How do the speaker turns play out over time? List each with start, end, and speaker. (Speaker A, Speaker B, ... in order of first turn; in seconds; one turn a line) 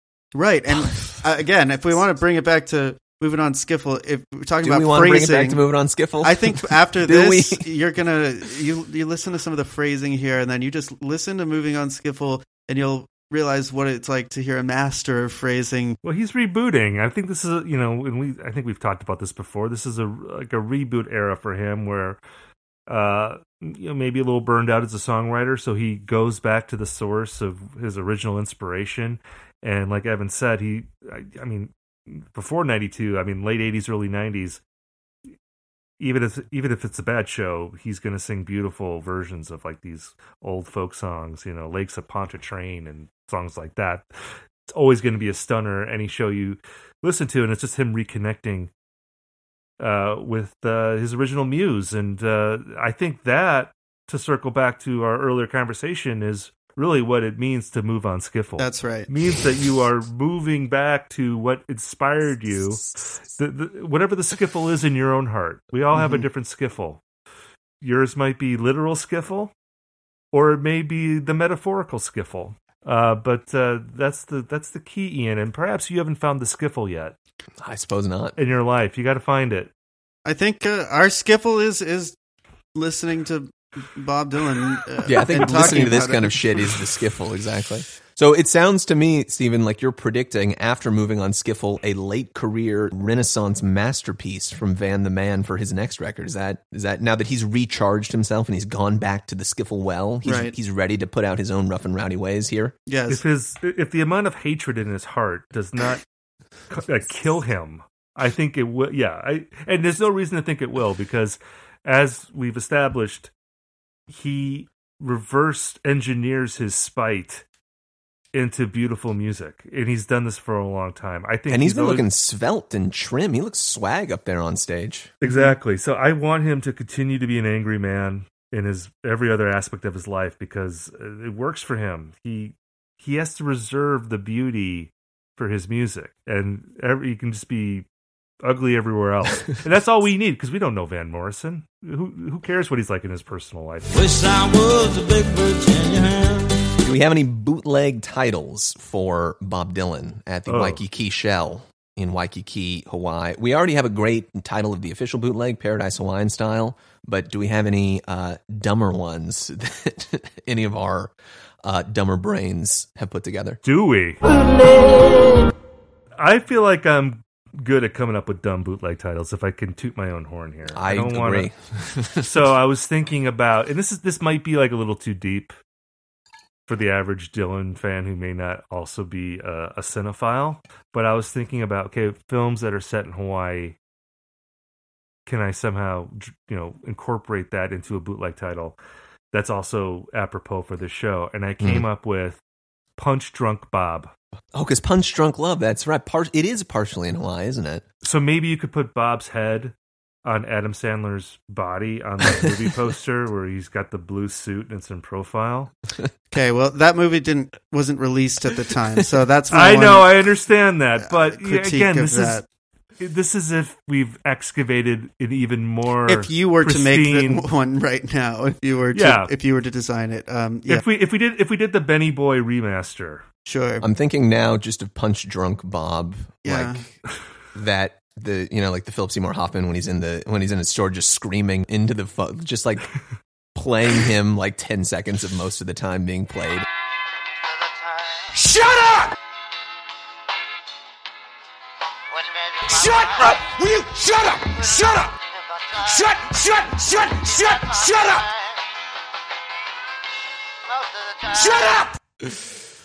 Speaker A: 0.3-5.6
Speaker B: 4.6-7.7
Speaker A: 6.2-16.0
Speaker C: 16.0-22.2
Speaker C: 22.9-34.6
Speaker C: 36.0-44.1
Speaker C: 44.7-48.7
Speaker C: 49.8-67.0
Speaker A: 58.6-59.1
Speaker A: 65.9-66.2
Speaker C: 67.8-69.5
Speaker C: 70.3-77.2
Speaker B: 77.6-78.4
Speaker C: 78.3-79.7
Speaker A: 80.2-82.2
Speaker A: 82.7-86.3
Speaker B: 85.0-102.7
Speaker C: 85.2-86.0
Speaker A: 100.2-100.5
Speaker A: 102.9-103.2
Speaker C: 103.1-106.0
Speaker C: 106.7-113.3
Speaker C: 114.1-117.4
Speaker C: 118.3-122.1
Speaker B: 121.5-125.1
Speaker C: 125.2-137.8
Speaker A: 125.2-125.5
Speaker C: 138.4-144.1
Speaker D: 144.3-146.5
Speaker B: 146.8-163.6
Speaker C: 150.5-150.8
Speaker C: 163.6-164.2
Speaker E: 164.4-165.0
Speaker C: 166.2-171.5
Speaker B: 170.7-172.3
Speaker C: 172.2-175.6
Speaker C: 176.7-183.8
Speaker C: 185.2-188.8
Speaker C: 189.3-192.4
Speaker B: 191.6-191.8
Speaker C: 193.0-194.1
Speaker B: 194.5-197.8
Speaker C: 198.0-205.7
Speaker A: 206.3-210.2
Speaker C: 209.5-212.4
Speaker A: 211.0-212.4
Speaker C: 213.0-217.4
Speaker A: 216.1-220.8
Speaker C: 218.9-219.3
Speaker C: 220.7-223.2
Speaker A: 223.4-223.8
Speaker B: 223.8-226.9
Speaker A: 226.4-226.8
Speaker B: 227.5-232.9
Speaker B: 233.5-236.7
Speaker E: 237.4-238.6
Speaker D: 238.7-239.1
Speaker E: 242.1-243.6
Speaker E: 244.4-248.6
Speaker E: 250.7-251.9
Speaker B: 252.2-252.5